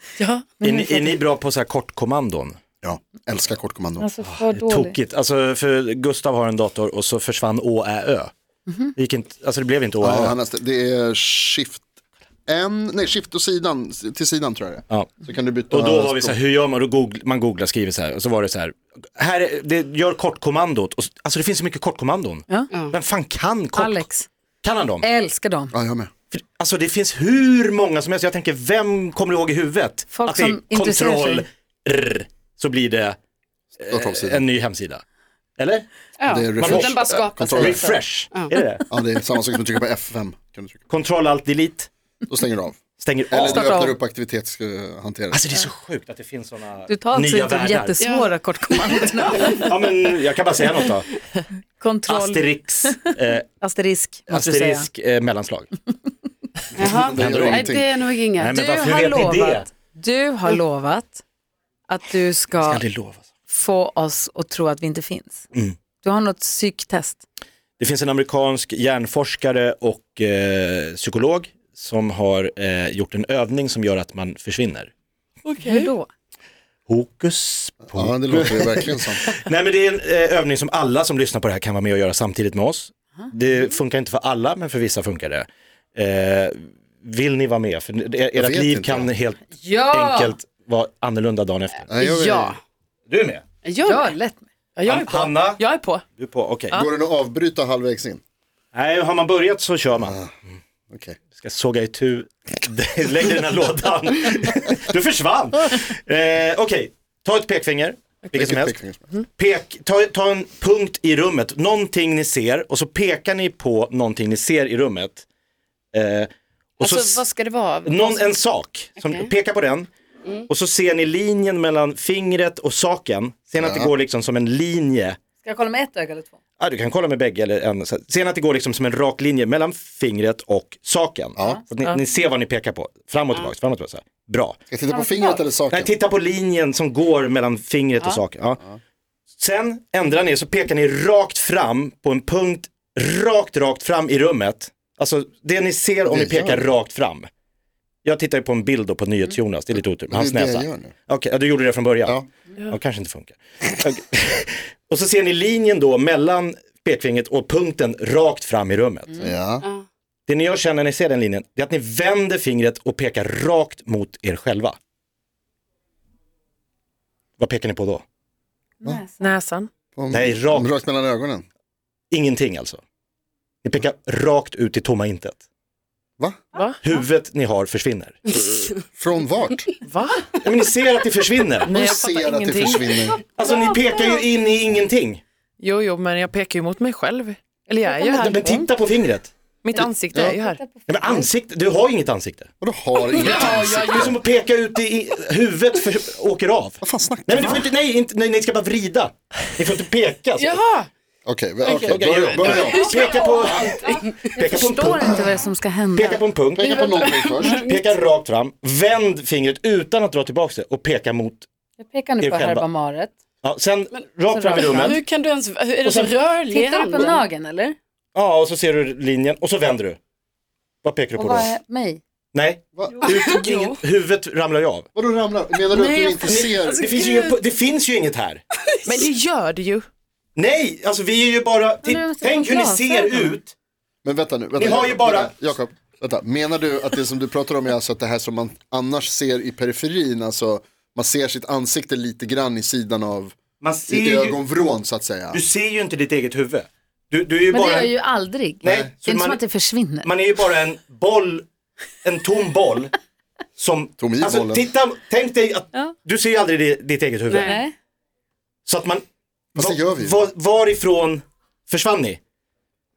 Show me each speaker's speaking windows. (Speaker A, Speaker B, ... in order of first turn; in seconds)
Speaker A: 0.2-0.5, 36.2-38.5, 48.0-48.2, 49.0-49.5, 56.8-58.6, 92.0-92.6, 93.6-94.1, 116.8-118.3, 178.4-178.7, 200.4-200.9, 201.6-203.3, 203.8-204.1, 206.6-207.8, 214.6-217.2, 223.2-223.5, 257.3-257.5
Speaker B: 0.6-1.2, 4.0-4.9, 8.7-8.9, 23.8-24.3, 25.0-25.7, 30.1-31.4, 43.4-44.0, 46.9-49.7, 51.8-54.9, 58.5-61.2, 61.9-62.8, 63.5-65.4, 66.0-67.2, 75.6-76.1, 89.6-90.3, 93.8-94.5, 125.4-126.3, 134.9-135.4, 168.8-169.3, 187.9-188.4, 190.2-191.1, 204.3-206.2, 211.8-213.1, 214.3-215.0, 216.5-217.8, 221.1-222.0, 231.8-233.3, 247.5-250.1, 257.4-257.7
Speaker C: 0.6-2.6, 4.3-8.3, 8.9-10.3, 15.7-24.1, 24.6-25.1, 26.3-33.2, 33.8-35.0, 35.6-35.9, 36.5-37.0, 37.5-38.8, 40.9-41.9, 43.0-43.7, 45.3-48.0, 49.5-51.1, 52.1-53.5, 54.3-55.7, 57.1-57.8, 58.4-59.7, 62.6-63.2, 67.8-74.9, 76.9-91.9, 93.1-93.4, 94.8-95.6, 96.2-96.7, 98.7-100.2, 101.3-108.8, 109.4-115.2, 115.9-117.2, 117.8-119.9, 120.5-125.2, 126.6-134.6, 135.7-138.6, 139.4-147.3, 148.0-159.2, 160.3-164.8, 167.4-168.0, 170.1-170.7, 172.1-172.8, 173.6-175.4, 176.8-178.2, 180.4-181.7, 183.3-185.2, 188.1-189.3, 190.9-192.5, 193.3-200.6, 201.9-205.1, 205.9-206.8, 207.4-211.5, 212.2-212.7, 213.4-215.0, 215.8-216.1, 218.1-220.0, 220.8-221.5, 222.3-224.8, 226.2-228.4, 230.3-233.5, 234.6-235.4, 243.6-244.4, 245.3-247.9, 248.6-249.4, 250.0-251.5, 252.0-252.9, 253.6-257.6, 258.7-259.0, 259.6-262.2
Speaker D: 2.8-4.0, 10.0-11.8, 12.5-16.4, 25.7-26.1, 33.9-34.5, 36.3-37.9, 38.9-40.8, 42.3-42.8, 43.3-45.4, 56.8-57.8, 77.9-79.3, 88.3-89.1, 91.9-92.6, 96.7-98.2, 100.0-100.3, 100.9-101.2, 108.3-109.1, 123.6-123.9, 131.3-131.6, 134.7-135.9, 146.0-146.7, 150.0-150.9, 159.2-159.6, 170.0-171.4, 178.9-179.7, 181.7-183.2, 190.1-190.4, 192.6-194.2, 196.8-197.6, 201.2-202.9, 203.5-203.7, 206.5-207.7, 222.8-223.1, 224.9-226.9, 234.0-243.3, 243.9-245.4, 248.6-248.9, 254.0-254.7, 259.5-260.2
Speaker E: 75.4-75.9, 94.8-96.0, 169.2-169.7, 176.5-176.8, 179.8-180.3, 181.6-183.1, 185.6-188.7, 189.6-191.1, 193.2-193.9, 225.8-226.2, 228.8-229.9